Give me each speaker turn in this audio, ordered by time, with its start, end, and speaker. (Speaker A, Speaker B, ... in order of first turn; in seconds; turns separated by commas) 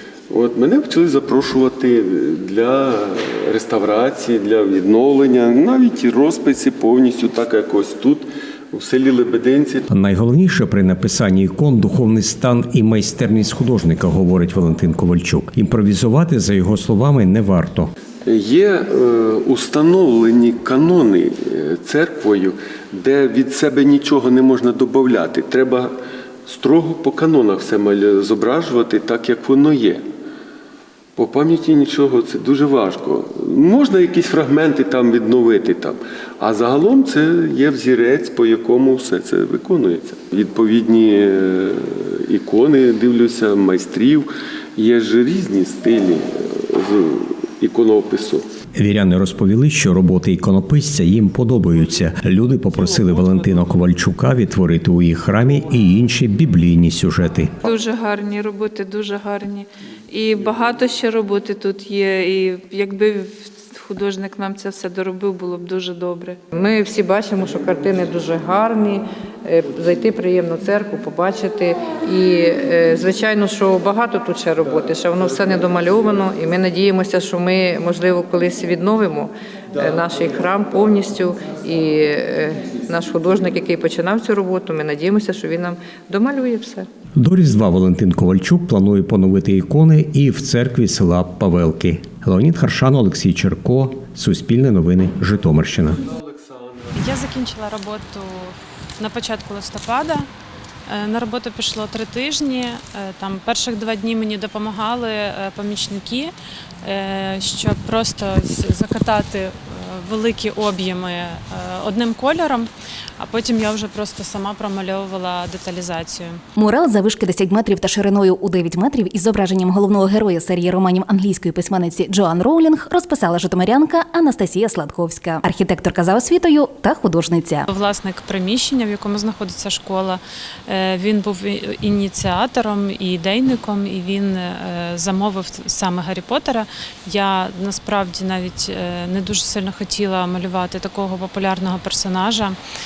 Speaker A: 0.3-9.8, Speaker B: 9.9-17.9, Speaker A: 18.3-25.9, Speaker A: 26.5-30.0, Speaker A: 31.2-48.4, Speaker B: 48.8-57.5, Speaker C: 57.6-66.4, Speaker D: 66.5-86.8, Speaker B: 87.2-96.0, Speaker A: 96.2-97.0, Speaker E: 97.0-100.3, Speaker E: 100.9-116.4, Speaker F: 116.6-127.6, Speaker E: 127.7-142.6